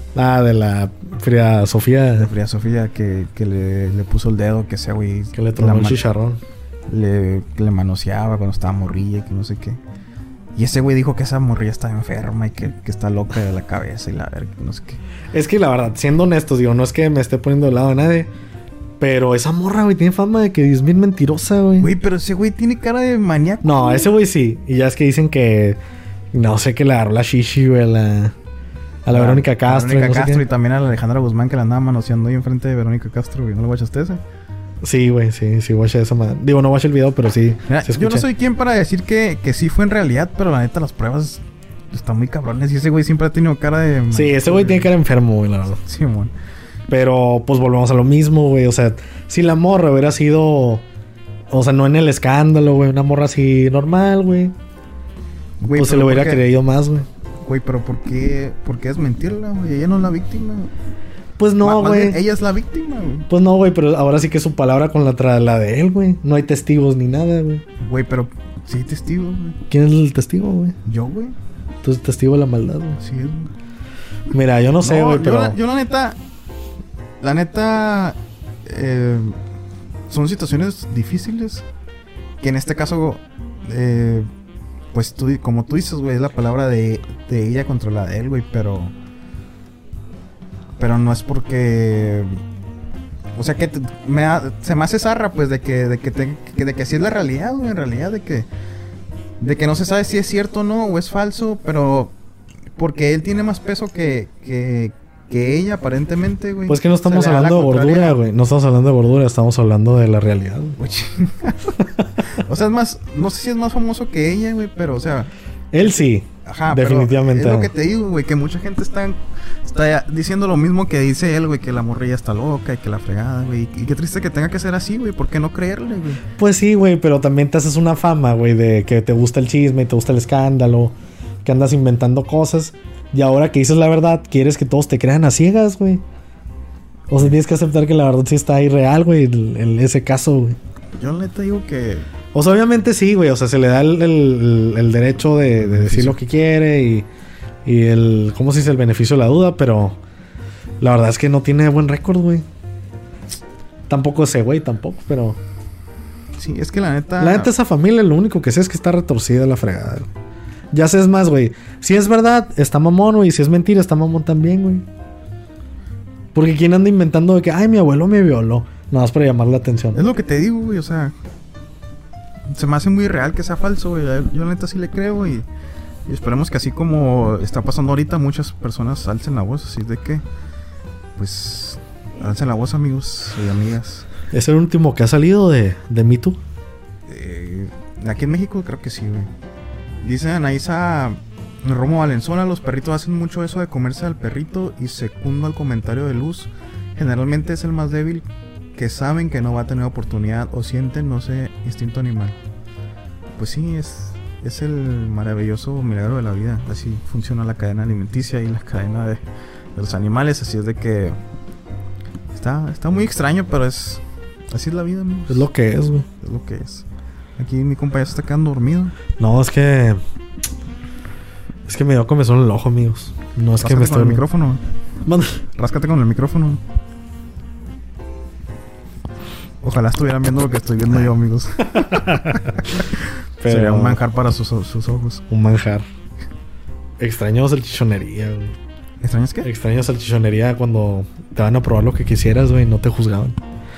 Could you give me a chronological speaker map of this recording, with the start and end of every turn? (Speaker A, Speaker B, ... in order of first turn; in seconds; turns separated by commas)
Speaker A: 0.1-2.3, Speaker B: 2.2-6.0, Speaker A: 5.3-6.4, Speaker B: 6.9-9.8, Speaker B: 10.6-15.0, Speaker A: 15.3-18.3, Speaker A: 19.0-21.9, Speaker B: 21.8-24.1, Speaker A: 23.6-25.8, Speaker A: 26.3-28.4, Speaker A: 29.1-30.4, Speaker B: 29.1-34.2, Speaker A: 34.8-38.3, Speaker B: 37.7-44.9, Speaker A: 44.1-45.8, Speaker B: 45.8-46.3, Speaker A: 46.9-50.8, Speaker A: 51.5-54.5, Speaker B: 55.6-56.4, Speaker A: 55.7-57.1, Speaker B: 57.4-60.7, Speaker A: 61.4-62.2, Speaker B: 61.6-63.3, Speaker A: 63.3-67.6, Speaker B: 67.8-69.6, Speaker A: 69.7-70.8, Speaker B: 70.8-71.3, Speaker A: 71.8-73.0, Speaker B: 73.0-73.5, Speaker A: 74.3-75.6, Speaker B: 74.8-76.2, Speaker B: 77.2-79.4, Speaker B: 80.1-81.7, Speaker B: 82.4-84.3, Speaker B: 84.9-88.9, Speaker B: 90.8-92.3, Speaker B: 93.3-98.5, Speaker B: 99.4-102.1, Speaker B: 102.8-108.2, Speaker A: 106.7-110.8, Speaker B: 110.8-111.7, Speaker A: 112.0-112.2, Speaker B: 112.3-115.3, Speaker A: 115.7-117.7, Speaker B: 116.4-126.2, Speaker A: 126.4-130.9, Speaker A: 131.4-136.0, Speaker A: 137.1-140.6, Speaker B: 141.0-142.1, Speaker A: 142.3-147.1, Speaker B: 145.6-146.2, Speaker A: 147.7-150.0, Speaker A: 150.8-152.4, Speaker A: 153.9-155.4, Speaker B: 156.4-157.5, Speaker A: 157.2-160.1, Speaker A: 160.7-164.9, Speaker A: 166.3-170.1, Speaker B: 169.9-171.2, Speaker B: 172.5-175.5, Speaker B: 176.1-180.2, Speaker B: 181.2-184.1, Speaker A: 184.3-186.4, Speaker B: 187.1-189.3, Speaker B: 190.0-202.4, Speaker B: 203.4-209.2, Speaker B: 209.8-211.2, Speaker B: 212.3-215.5, Speaker A: 215.3-216.1, Speaker B: 216.2-216.9, Speaker B: 217.4-219.0, Speaker A: 219.2-220.0, Speaker A: 221.7-224.2, Speaker B: 223.6-224.6, Speaker A: 225.1-225.4, Speaker B: 225.6-226.6, Speaker B: 229.6-235.2, Speaker A: 231.7-232.8, Speaker A: 233.4-234.0, Speaker A: 235.3-235.9, Speaker A: 237.0-238.6, Speaker B: 239.0-239.5, Speaker A: 239.4-243.4